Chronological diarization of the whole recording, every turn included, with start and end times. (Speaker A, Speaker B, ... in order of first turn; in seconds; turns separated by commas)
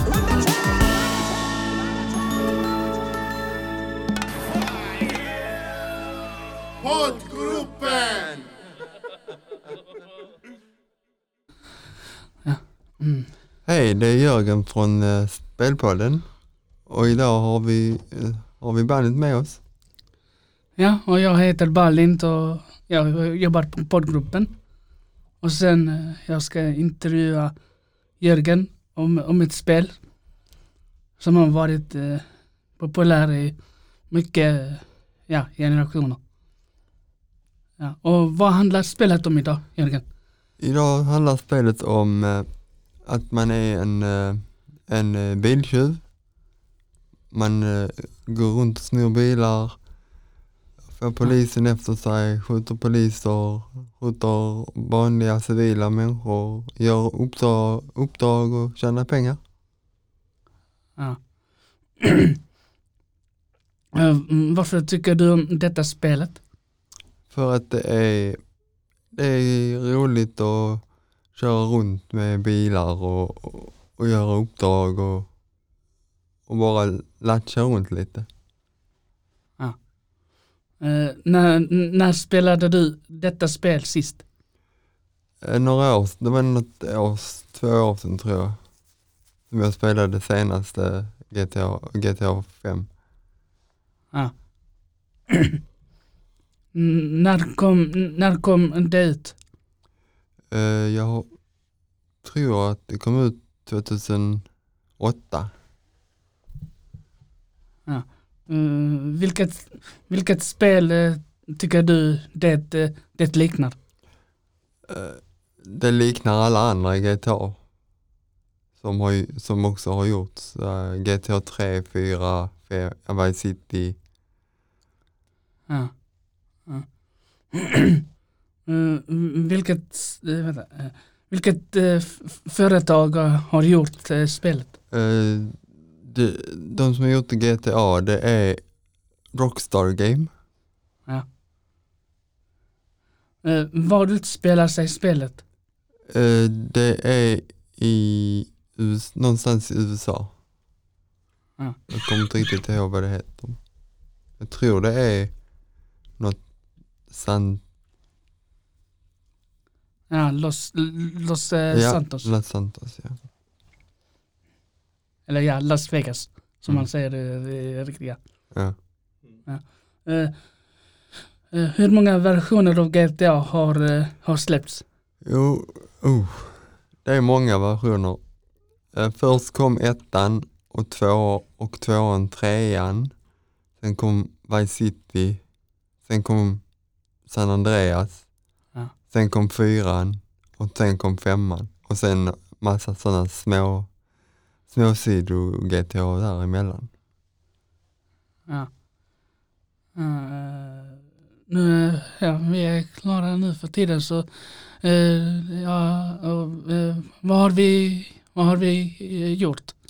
Speaker A: 12.4-13.3, Speaker B: 13.7-16.3, Speaker B: 16.9-19.6, Speaker A: 20.8-24.6, Speaker A: 25.4-27.6, Speaker A: 28.1-30.0, Speaker A: 31.2-36.2, Speaker A: 37.8-40.1, Speaker B: 40.6-42.5, Speaker B: 43.0-46.0, Speaker B: 47.3-49.8, Speaker B: 50.9-59.4, Speaker A: 61.0-61.3, Speaker A: 62.0-62.4, Speaker A: 63.9-66.4, Speaker B: 67.3-68.4, Speaker B: 69.1-75.3, Speaker B: 76.5-78.3, Speaker A: 80.8-84.2, Speaker B: 85.4-88.7, Speaker B: 89.5-92.9, Speaker A: 94.1-95.5, Speaker A: 96.7-99.4, Speaker B: 100.5-101.4, Speaker B: 102.2-105.5, Speaker A: 107.8-113.8, Speaker B: 114.9-117.6, Speaker B: 118.8-124.0, Speaker A: 125.7-128.0, Speaker A: 128.6-134.7, Speaker B: 134.9-140.3, Speaker A: 143.4-145.4, Speaker B: 146.1-150.3, Speaker A: 151.6-151.8, Speaker B: 151.9-153.6, Speaker B: 154.4-155.3, Speaker B: 156.2-156.4, Speaker B: 157.1-157.6, Speaker A: 160.1-162.3, Speaker B: 161.7-163.2, Speaker A: 165.3-168.2, Speaker B: 168.5-168.8, Speaker A: 169.4-170.5, Speaker A: 171.5-174.8, Speaker B: 175.2-178.2, Speaker B: 178.9-183.1, Speaker B: 183.8-185.4, Speaker B: 186.1-186.6, Speaker B: 187.2-188.3, Speaker B: 189.1-193.9, Speaker B: 194.7-196.9, Speaker A: 198.5-198.7, Speaker A: 199.9-209.7